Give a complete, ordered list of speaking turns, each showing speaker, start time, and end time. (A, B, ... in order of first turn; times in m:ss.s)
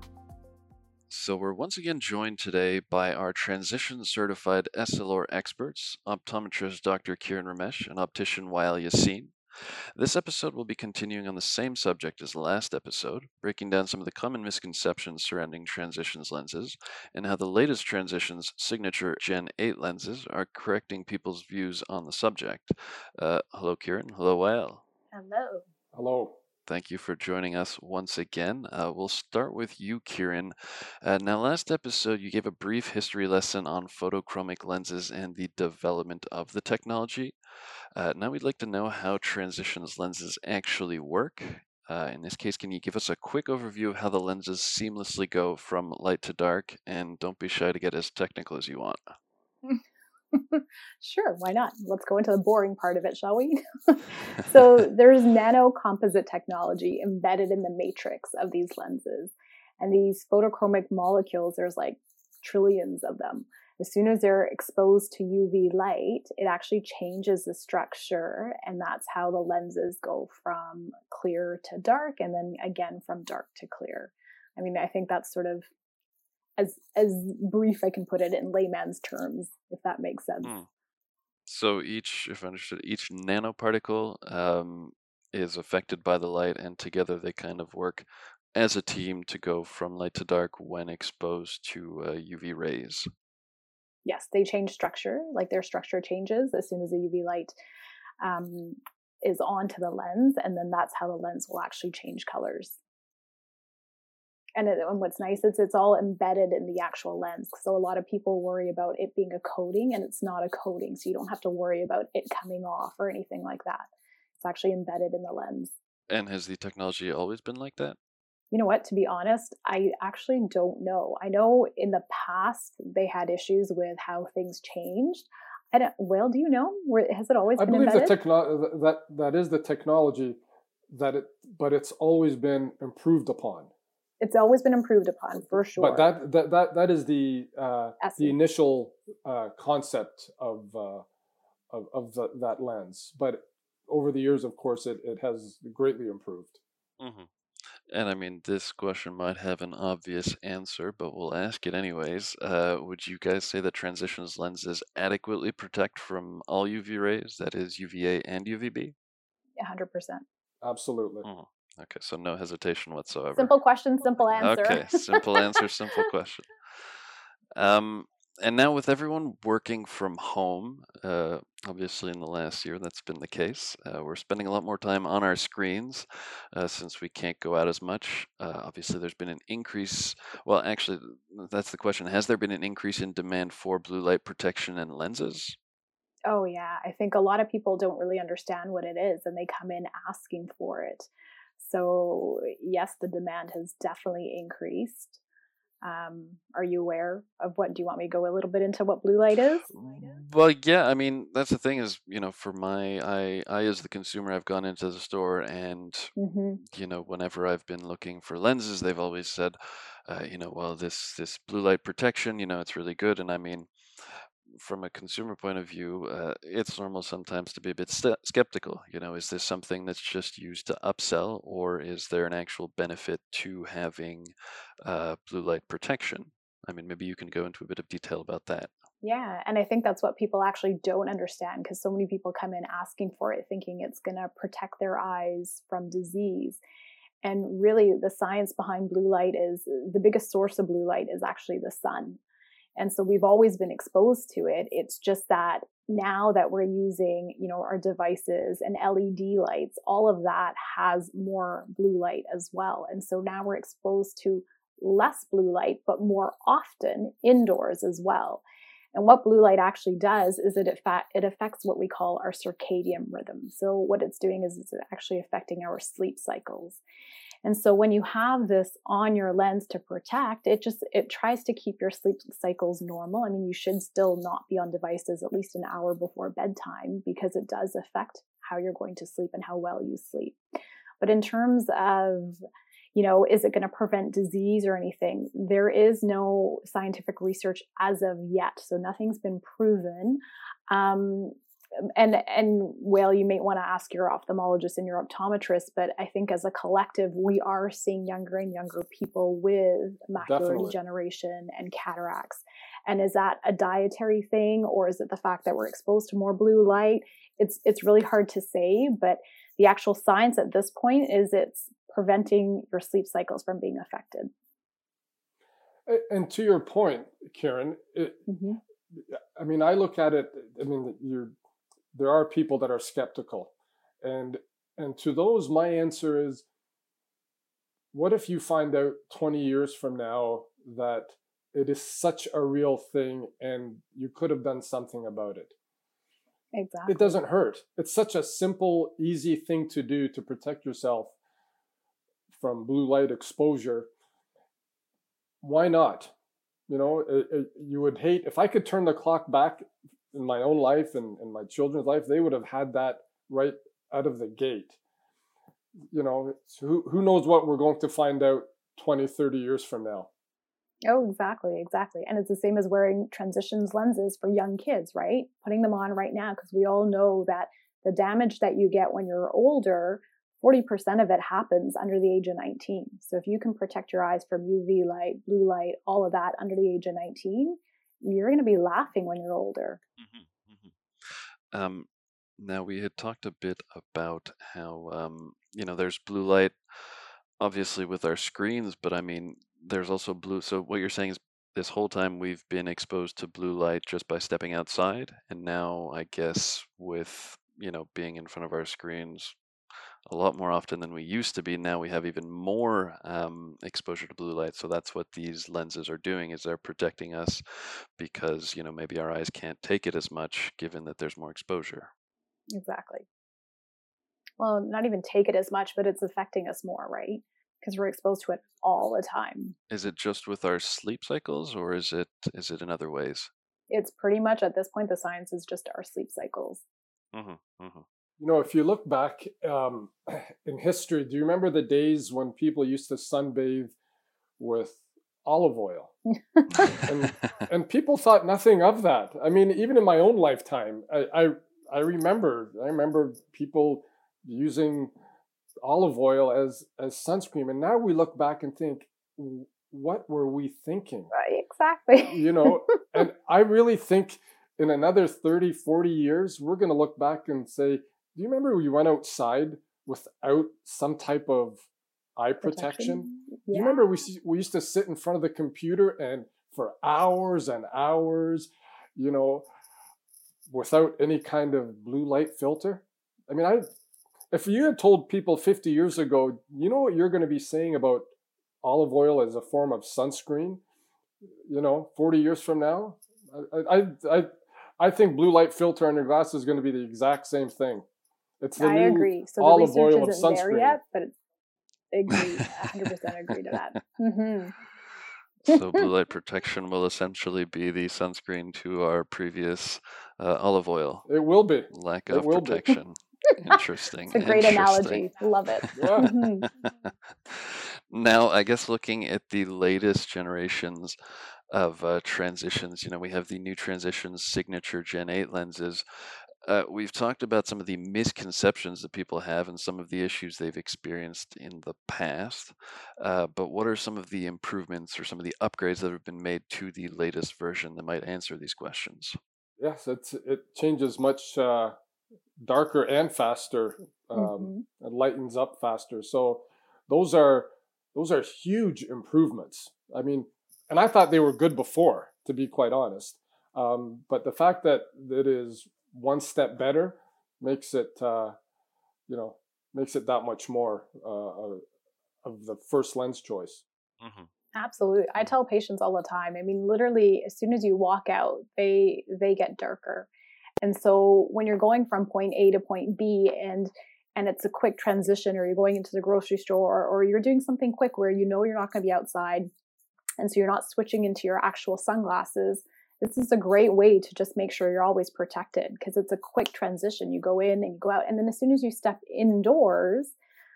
0:01.1-0:09.4 A
0:10.0-0:24.8 A
0:25.1-0:25.6 B
0:25.9-0:26.4 C
0:26.7-0:37.4 A
0:38.0-0:49.0 A
0:50.3-1:15.7 B
1:16.6-1:20.5 B
1:20.4-1:20.7 A
1:21.5-1:33.1 A
1:34.0-1:37.5 B
1:38.2-1:42.8 B
1:44.6-1:53.9 B
1:54.4-1:55.7 B
1:56.1-1:58.0 A
1:58.5-2:08.2 B
2:07.6-2:10.4 C
2:10.9-2:13.7 C
2:14.2-2:16.1 B
2:15.8-2:21.0 C
2:18.0-2:18.4 B
2:21.7-2:26.6 C
2:27.0-2:27.3 A
2:27.9-2:38.9 A
2:39.6-2:40.2 B
2:40.6-2:41.3 C
2:41.2-2:43.5 A
2:43.4-2:45.2 B
2:44.1-2:46.5 A
2:47.6-3:05.6 A
3:06.3-3:15.2 B
3:15.8-3:20.0 B
3:19.7-3:26.1 A
3:26.2-3:26.6 B
3:26.7-3:44.3 A
3:44.8-3:48.7 A
3:49.0-3:56.6 B
3:57.2-4:02.2 B
4:02.8-4:26.8 B
4:27.4-4:40.4 B
4:41.0-4:42.4 B
4:42.9-5:14.3 B
5:00.2-5:00.8 C
5:15.9-5:18.2 C
5:18.3-5:18.6 B
5:19.1-5:21.3 C
5:21.9-5:26.4 C
5:27.9-5:35.5 C
5:36.5-5:37.2 B
5:36.9-5:41.1 C
5:42.4-5:43.9 C
5:45.4-5:46.1 C
5:46.7-5:54.8 C
5:55.9-6:00.1 C
6:00.9-6:19.8 B
6:20.0-6:26.6 A
6:27.4-6:39.4 A
6:40.1-6:47.4 A
6:48.0-6:51.9 A
6:52.5-6:53.0 B
6:54.4-6:59.6 B
6:59.7-7:03.3 A
7:03.7-7:06.6 B
7:07.1-7:07.8 A
7:08.2-7:13.8 C
7:14.4-7:16.0 C
7:16.4-7:16.8 B
7:16.8-7:24.9 C
7:25.6-7:31.1 C
7:31.1-7:32.8 B
7:32.0-7:41.6 C
7:42.2-7:49.5 C
7:42.4-7:44.0 B
7:50.5-7:53.6 C
7:54.3-7:58.1 C
7:58.6-8:00.6 C
8:01.5-8:07.8 C
8:08.4-8:10.8 C
8:08.6-8:11.1 B
8:11.9-8:14.5 B
8:15.4-8:21.1 A
8:15.5-8:15.8 B
8:21.1-8:22.7 C
8:21.7-8:26.1 A
8:24.1-8:26.5 B
8:25.8-8:26.1 C
8:27.3-8:31.0 A
8:31.5-8:35.8 A
8:36.4-8:49.2 A
8:49.6-8:51.8 C
8:52.4-9:08.4 C
8:54.2-8:54.6 B
9:09.1-9:11.6 C
9:12.2-9:13.6 C
9:14.0-9:14.3 A
9:14.5-9:20.1 B
9:20.6-9:29.5 B
9:30.2-9:40.1 B